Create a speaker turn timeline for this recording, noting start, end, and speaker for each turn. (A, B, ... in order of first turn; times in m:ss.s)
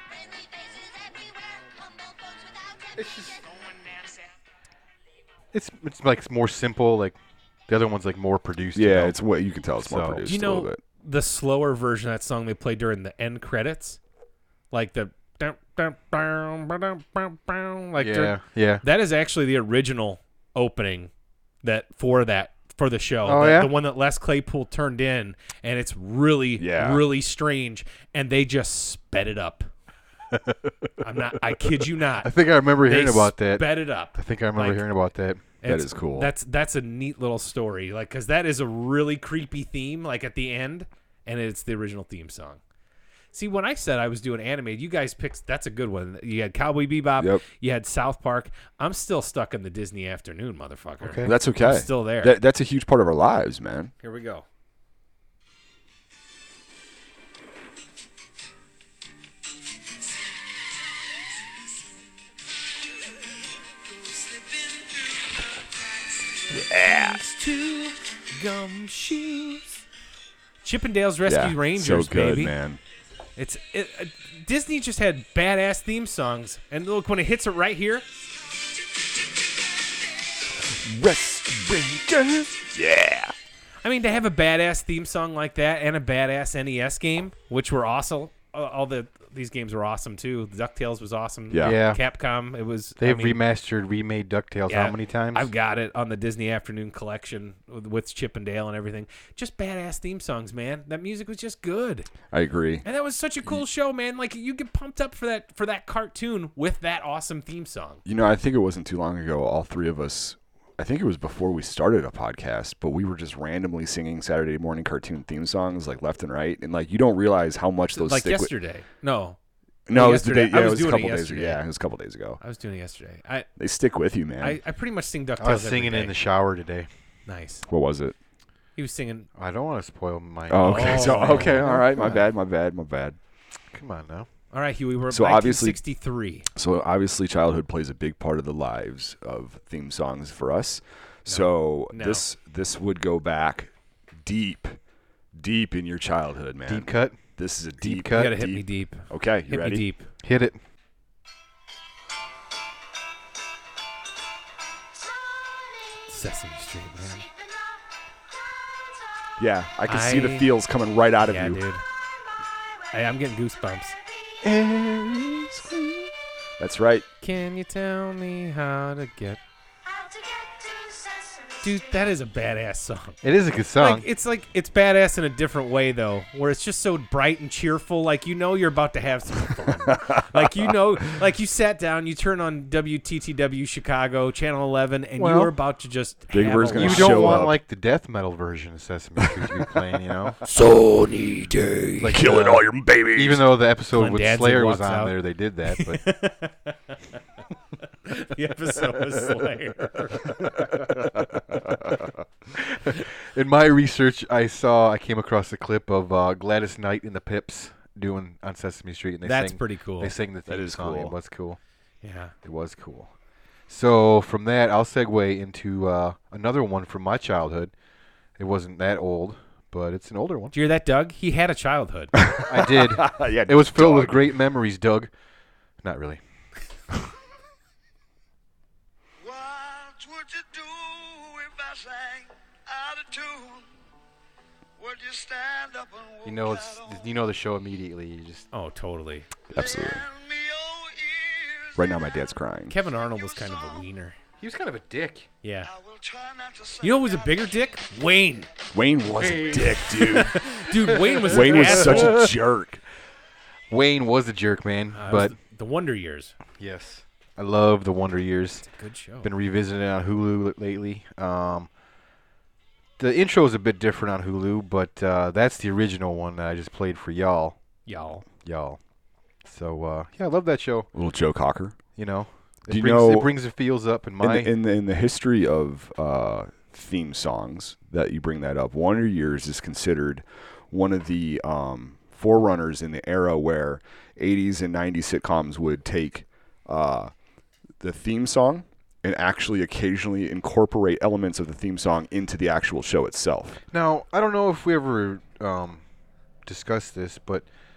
0:00.1-0:03.4 A
0:03.0-0:03.4 B
0:03.4-0:04.3 C
0:05.5-0:09.2 B
0:08.7-0:10.8 D
0:09.8-0:10.2 B
0:10.2-0:14.0 E
0:14.7-0:21.1 E
0:18.0-0:18.8 B
0:21.6-0:29.7 E
0:23.2-0:23.7 B
0:26.6-0:27.1 D
0:31.0-0:32.3 E
0:32.2-0:35.4 B
0:32.8-0:34.9 E
0:35.6-0:42.6 E
0:35.6-0:36.3 D
0:43.3-0:52.4 E
0:47.2-0:47.4 D
0:51.0-0:51.3 B
0:51.2-0:53.9 D
0:54.0-0:54.4 E
1:06.5-1:09.8 E
1:06.5-1:07.2 D
1:10.6-1:12.5 E
1:11.3-1:12.8 D
1:13.4-1:18.1 E
1:20.6-1:23.3 D
1:23.8-1:33.4 E
1:31.5-1:31.8 D
1:31.6-1:32.0 B
1:33.0-1:35.5 B
1:34.7-1:42.1 E
1:42.3-1:42.8 D
1:42.8-1:48.0 E
1:48.0-1:58.5 D
1:57.9-1:59.4 E
1:59.9-2:02.4 D
1:59.9-2:01.6 E
2:02.4-2:03.5 E
2:03.6-2:04.6 D
2:04.4-2:06.2 E
2:05.4-2:06.9 B
2:07.3-2:07.7 E
2:07.7-2:08.2 D
2:08.8-2:09.3 E
2:09.4-2:12.2 B
2:10.5-2:13.2 D
2:10.6-2:11.7 E
2:13.7-2:14.3 B
2:14.5-2:16.5 E
2:15.1-2:15.8 D
2:16.5-2:24.8 D
2:21.3-2:22.2 E
2:25.3-2:29.8 D
2:26.7-2:27.2 B
2:27.8-2:28.4 B
2:28.1-2:30.1 E
2:30.2-2:30.6 B
2:36.1-2:37.3 E
2:39.4-2:41.6 D
2:39.9-2:40.5 E
2:41.2-2:41.8 E
2:42.9-2:44.0 E
2:44.4-2:47.1 D
2:47.2-2:49.4 E
2:49.9-2:51.8 A
2:51.6-2:53.2 E
2:53.2-2:54.1 B
2:53.8-3:07.5 E
2:59.9-3:00.7 D
3:05.2-3:05.5 B
3:06.3-3:07.6 D
3:06.7-3:10.4 B
3:10.4-3:12.1 E
3:12.0-3:16.0 B
3:12.1-3:13.6 D
3:13.9-3:15.2 E
3:15.7-3:17.0 E
3:18.0-3:20.6 E
3:20.7-3:22.1 D
3:22.5-3:31.6 B
3:29.2-3:30.1 E
3:30.5-3:31.2 D
3:32.0-3:32.3 E
3:32.4-3:33.1 B
3:33.7-3:37.7 B
3:38.4-3:40.5 B
3:40.5-3:42.1 E
3:42.2-3:44.3 D
3:42.4-3:45.1 B
3:45.8-3:46.2 B
3:49.2-3:53.7 C
3:54.8-3:57.0 C
3:56.2-3:58.5 B
3:58.5-3:59.3 E
3:59.5-4:00.0 D
3:59.5-4:01.8 C
4:01.8-4:02.8 D
4:02.7-4:04.2 E
4:04.4-4:05.3 B
4:05.4-4:05.7 E
4:05.7-4:07.4 C
4:06.8-4:08.5 E
4:08.7-4:10.5 D
4:09.2-4:12.3 B
4:09.8-4:12.3 E
4:11.2-4:12.8 D
4:13.7-4:15.4 B
4:14.9-4:16.4 E
4:16.6-4:18.7 B
4:18.6-4:19.3 E
4:19.2-4:21.7 B
4:23.0-4:27.6 B
4:27.9-4:28.2 E
4:28.4-4:28.8 B
4:29.4-4:30.9 B
4:31.0-4:31.8 D
4:32.0-4:34.5 B
4:32.7-4:33.3 D
4:34.2-4:47.1 D
4:47.8-4:53.6 D
4:53.7-4:55.8 B
4:56.5-4:57.5 B